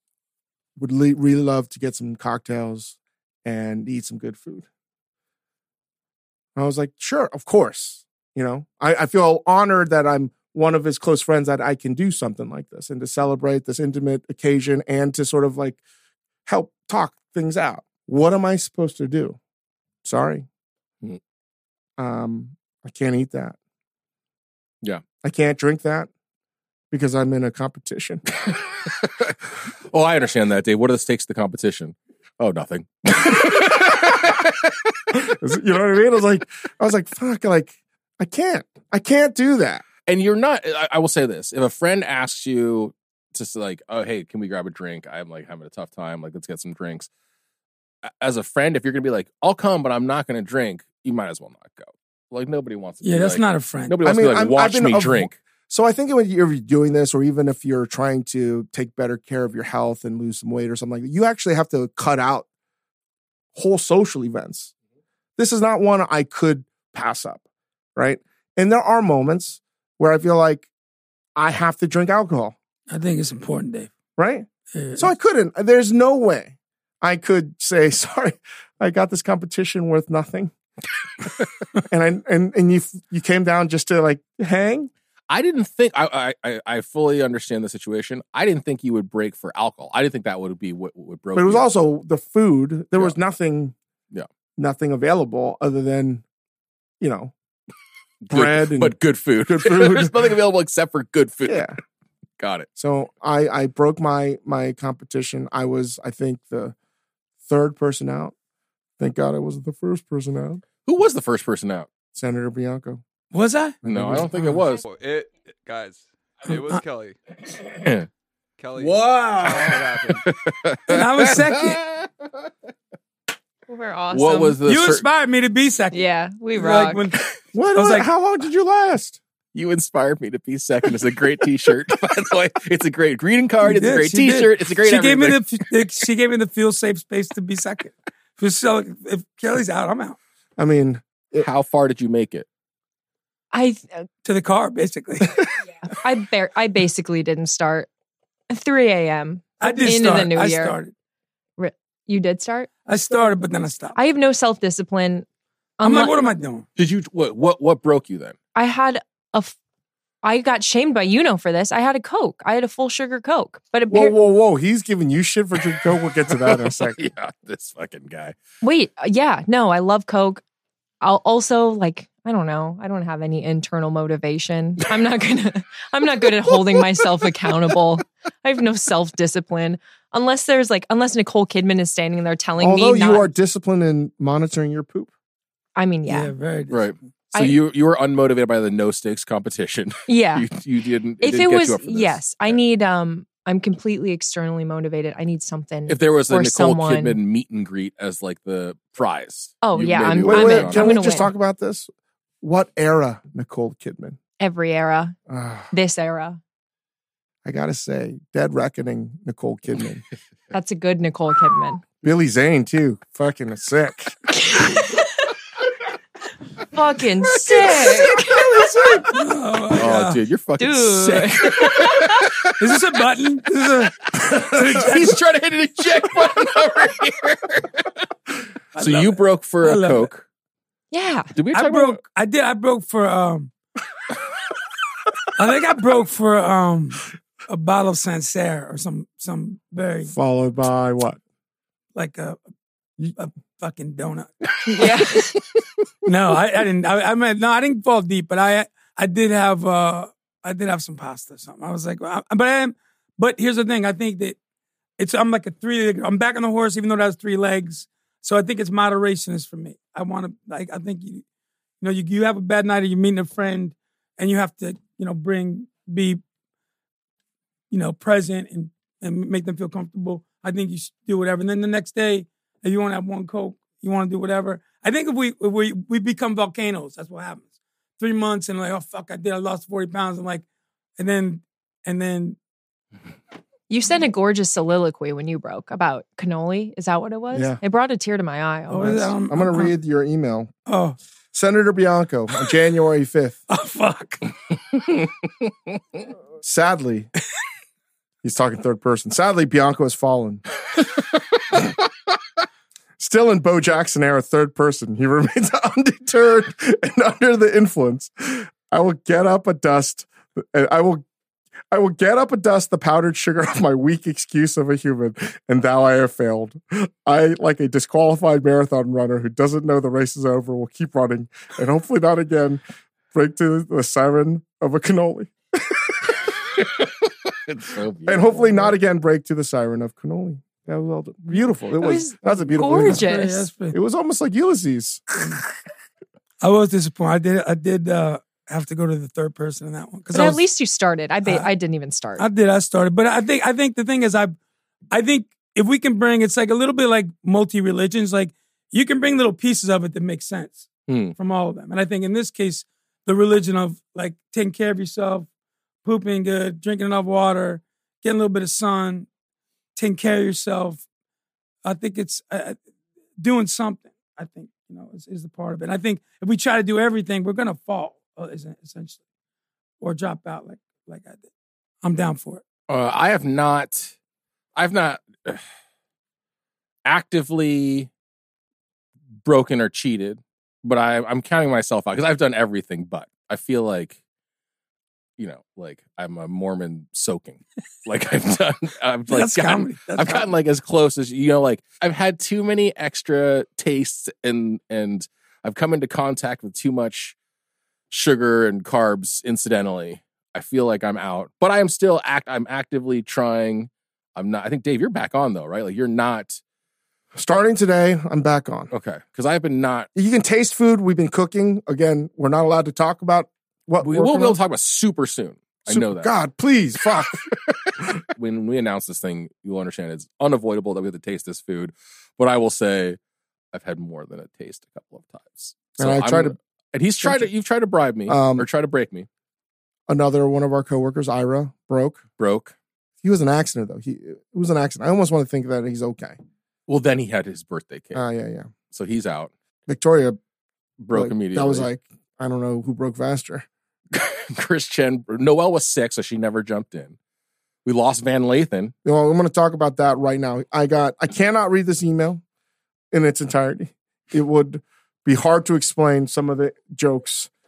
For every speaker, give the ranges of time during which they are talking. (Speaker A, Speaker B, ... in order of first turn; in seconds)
Speaker A: 0.8-4.7, 6.5-15.8, 16.4-19.4, 20.0-20.5, 22.0-23.6, 25.2-26.1, 26.9-28.2, 35.1-39.8, 54.0-62.5, 63.5-64.7, 65.4-67.4, 68.0-70.7, 71.4-72.5, 74.2-80.5, 81.9-84.9, 91.3-93.7, 94.6-96.2, 97.0-97.3, 98.3-100.3, 101.5-101.8, 102.8-106.7, 107.5-108.3, 109.0-110.6, 112.1-113.0, 113.8-114.5, 127.5-129.2, 140.6-141.5, 163.9-167.1, 182.6-185.1, 200.2-201.9, 202.4-204.2, 205.3-205.7, 207.4-210.0, 212.0-214.2, 240.1-241.2, 287.3-287.6, 288.8-290.5, 291.3-293.4, 296.4-297.1, 298.2-300.4, 303.0-311.0, 311.7-322.6, 323.1-325.8, 328.1-333.1, 333.7-335.0, 407.1-408.7, 409.9-414.4, 415.7-418.0, 425.8-426.4, 427.0-427.3, 428.1-428.4, 429.9-432.0, 433.0-436.2, 437.9-438.5, 439.7-440.2, 440.9-443.5, 448.8-452.2, 452.9-457.3
Speaker B: 28.9-29.4, 29.9-34.5, 40.0-47.1, 48.1-55.4, 85.3-91.7, 98.3-101.7, 102.4-102.7, 110.8-111.9, 113.8-114.9, 117.7-118.1, 118.8-122.1, 124.1-125.0, 129.5-135.4, 141.4-142.4, 156.8-158.4, 166.5-168.4, 186.7-192.6, 195.9-201.1, 219.7-222.7, 224.2-228.0, 228.8-230.2, 231.3-232.0, 326.8-328.8, 350.9-351.1, 372.7-373.9, 374.6-375.4, 376.8-377.9, 379.2-384.0, 385.2-397.1, 397.9-406.4, 408.7-409.9, 413.8-416.1, 418.1-423.0, 423.5-429.1, 432.2-432.5, 436.7-438.0, 438.7-439.3, 440.8-441.7, 443.9-446.9, 447.6-448.7
Speaker C: 53.0-54.0, 72.9-73.9, 74.7-75.1, 113.3-113.8, 116.5-116.8, 120.9-121.8, 124.6-126.0, 126.5-127.2, 127.7-128.1, 133.6-140.2, 144.2-145.4, 149.6-150.9, 152.9-153.9, 155.8-156.7, 186.1-186.9, 218.8-220.2, 222.6-225.2, 228.7-230.1, 231.5-233.5, 235.4-240.1, 241.9-242.4, 243.0-244.9, 246.1-254.4, 255.0-261.2, 261.8-266.2, 267.7-280.4, 281.0-282.4, 288.7-289.7, 290.7-290.9, 293.5-294.3, 332.7-333.8, 336.4-340.4, 341.2-341.5, 342.2-344.3, 344.9-355.3, 355.8-359.1, 359.8-360.8, 361.6-362.6, 363.2-369.0, 369.8-371.3, 371.8-372.4, 389.1-390.3
Speaker D: 114.9-117.2, 118.6-120.2
Speaker E: 123.7-124.6, 125.9-127.0, 143.5-144.1, 145.9-147.9, 148.5-150.8, 151.6-152.7, 153.9-155.3, 155.8-156.3, 158.6-159.6, 160.2-164.1, 168.6-170.4, 171.0-183.3, 185.8-186.3, 187.3-187.6, 190.1-190.4, 191.2-197.2, 199.6-201.3, 204.4-205.2, 205.7-206.4, 210.5-211.8, 214.3-215.3, 216.7-219.0, 220.6-222.3, 230.9-231.3, 244.7-245.4, 283.7-289.1, 331.8-333.5, 340.1-342.3